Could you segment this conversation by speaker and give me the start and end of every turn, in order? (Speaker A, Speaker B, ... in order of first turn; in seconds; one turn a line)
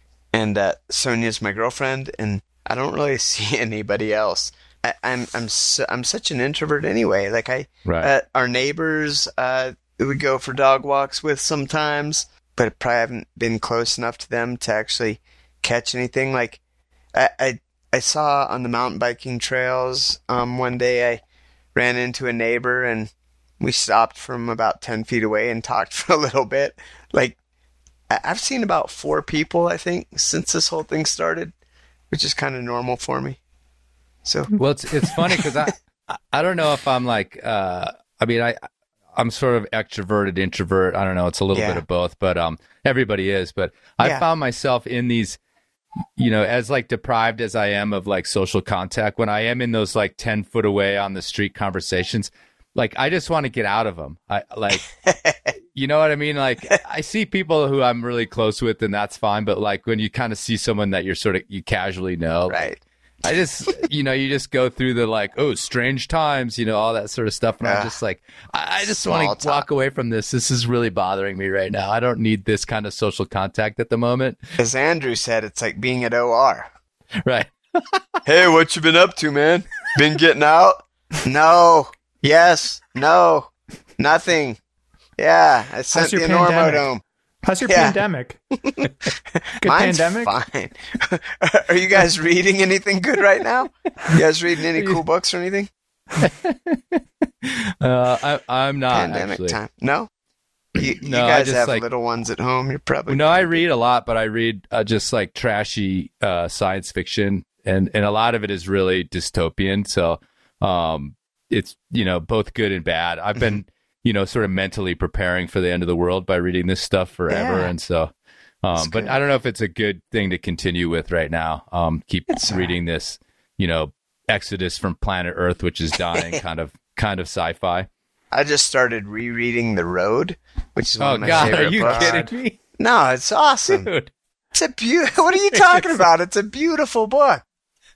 Speaker A: 0.3-16.6
Speaker B: 7.8-8.1
Speaker A: 17.1-21.2
Speaker A: 21.8-27.4
Speaker A: 28.1-31.5
Speaker A: 32.1-33.4
Speaker A: 34.2-35.5
Speaker B: 34.6-38.6
Speaker B: 39.1-45.4
Speaker A: 41.5-41.8
Speaker B: 46.2-54.9
Speaker A: 55.1-55.5
Speaker B: 55.7-62.7
Speaker A: 62.5-62.8
Speaker B: 63.2-74.5
Speaker A: 67.6-67.9
Speaker A: 68.8-69.6
Speaker A: 74.6-76.7
Speaker B: 77.2-78.0
Speaker A: 78.2-84.6
Speaker A: 85.2-87.0
Speaker C: 85.9-86.9
Speaker C: 87.4-88.4
Speaker A: 87.7-88.0
Speaker C: 89.6-90.3
Speaker A: 89.6-95.7
Speaker B: 96.2-99.6
Speaker A: 98.9-100.1
Speaker A: 100.8-103.6
Speaker B: 101.0-101.8
Speaker B: 103.1-118.1
Speaker A: 117.3-117.7
Speaker B: 118.6-127.9
Speaker A: 118.8-119.2
Speaker A: 122.3-122.8
Speaker A: 126.1-126.4
Speaker A: 128.3-132.2
Speaker B: 131.0-132.6
Speaker C: 131.2-132.3
Speaker A: 132.8-133.9
Speaker B: 133.7-134.1
Speaker A: 134.5-137.4